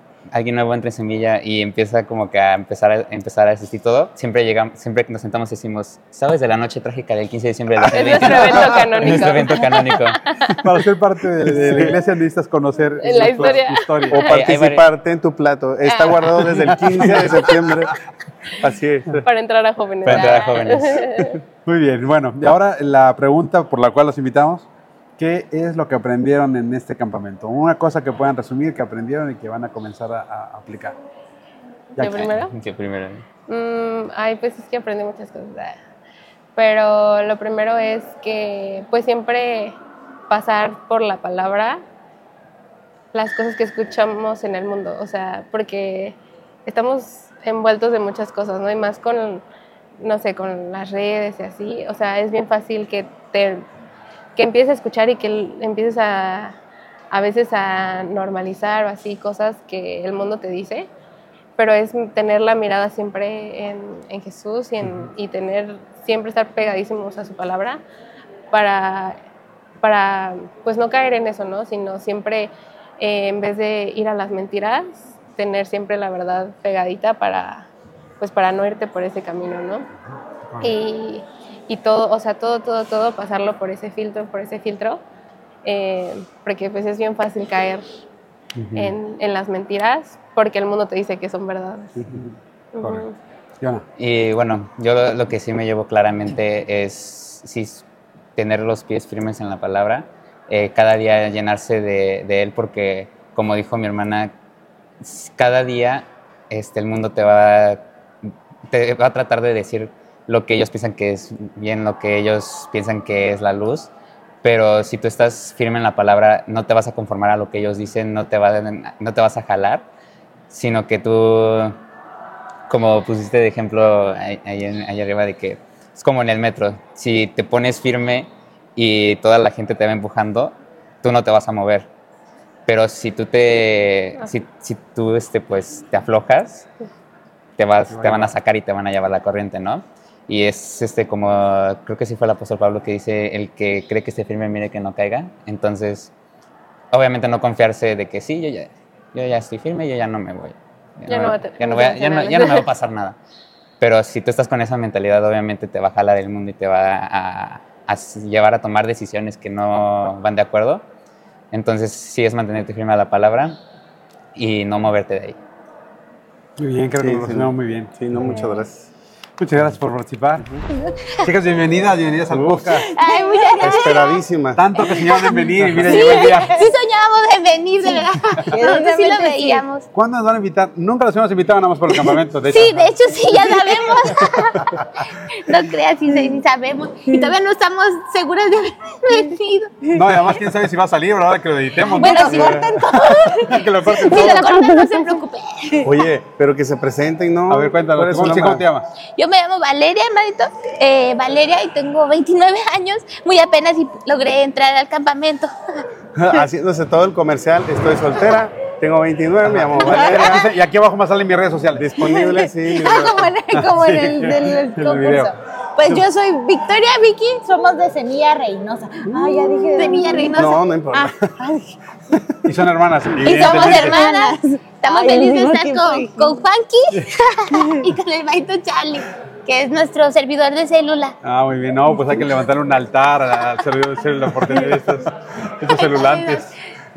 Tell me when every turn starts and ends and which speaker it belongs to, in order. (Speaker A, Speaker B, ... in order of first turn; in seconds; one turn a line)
Speaker A: 0.3-10.2
Speaker B: 7.8-10.6
Speaker C: 8.2-9.3
Speaker C: 10.6-14.3
Speaker D: 11.5-11.9
Speaker B: 13.0-14.4
Speaker D: 14.1-17.9
Speaker A: 14.2-14.9
Speaker B: 15.8-16.2
Speaker C: 16.5-17.3
Speaker D: 18.6-19.3
Speaker B: 19.2-21.4
Speaker A: 20.0-21.1
Speaker C: 20.1-20.3
Speaker C: 21.6-24.7
Speaker C: 25.2-31.0
Speaker B: 32.0-32.5
Speaker A: 32.0-33.2
Speaker B: 33.5-35.8
Speaker B: 36.6-39.8
Speaker B: 40.3-41.8
Speaker B: 43.1-49.4
Speaker B: 50.0-53.6
Speaker B: 54.4-56.6
Speaker B: 57.1-60.9
Speaker B: 61.6-67.8
Speaker B: 68.5-69.2
Speaker B: 69.8-77.7
Speaker B: 78.2-79.9
Speaker B: 80.6-85.0
Speaker B: 85.7-88.0
Speaker C: 88.6-89.0
Speaker B: 88.8-92.0
Speaker C: 92.0-93.0
Speaker B: 92.7-93.2
Speaker A: 94.0-97.8
Speaker A: 98.4-104.3
Speaker A: 105.0-113.9
Speaker A: 114.4-119.8
Speaker A: 120.5-121.8
Speaker A: 122.7-131.9
Speaker A: 132.7-136.7
Speaker A: 137.6-146.1
Speaker C: 137.9-138.3
Speaker A: 146.9-153.2
Speaker B: 151.1-152.7
Speaker A: 153.8-160.8
Speaker A: 161.5-163.6
Speaker A: 164.3-165.4
Speaker C: 166.6-168.4
Speaker D: 167.0-168.8
Speaker C: 169.4-170.4
Speaker C: 171.2-172.9
Speaker D: 172.3-172.8
Speaker E: 172.9-174.0
Speaker F: 172.9-174.2
Speaker D: 173.6-174.7
Speaker C: 174.6-176.6
Speaker D: 175.6-175.9
Speaker F: 175.8-179.9
Speaker E: 177.8-179.6
Speaker C: 179.9-182.9
Speaker F: 182.5-184.7
Speaker F: 185.4-189.9
Speaker E: 187.1-187.3
Speaker C: 189.9-194.6
Speaker E: 191.9-193.2
Speaker F: 192.0-195.8
Speaker E: 194.0-195.2
Speaker D: 195.8-198.7
Speaker C: 197.5-198.9
Speaker F: 199.2-205.8
Speaker D: 206.2-210.5
Speaker C: 209.4-211.9
Speaker D: 211.8-213.3
Speaker E: 212.0-220.4
Speaker C: 213.5-215.3
Speaker F: 219.7-220.7
Speaker D: 220.3-221.4
Speaker E: 220.9-221.7
Speaker C: 222.4-224.0
Speaker F: 223.2-231.2
Speaker E: 223.2-226.4
Speaker E: 227.5-227.8
Speaker C: 231.2-236.5
Speaker F: 235.7-236.5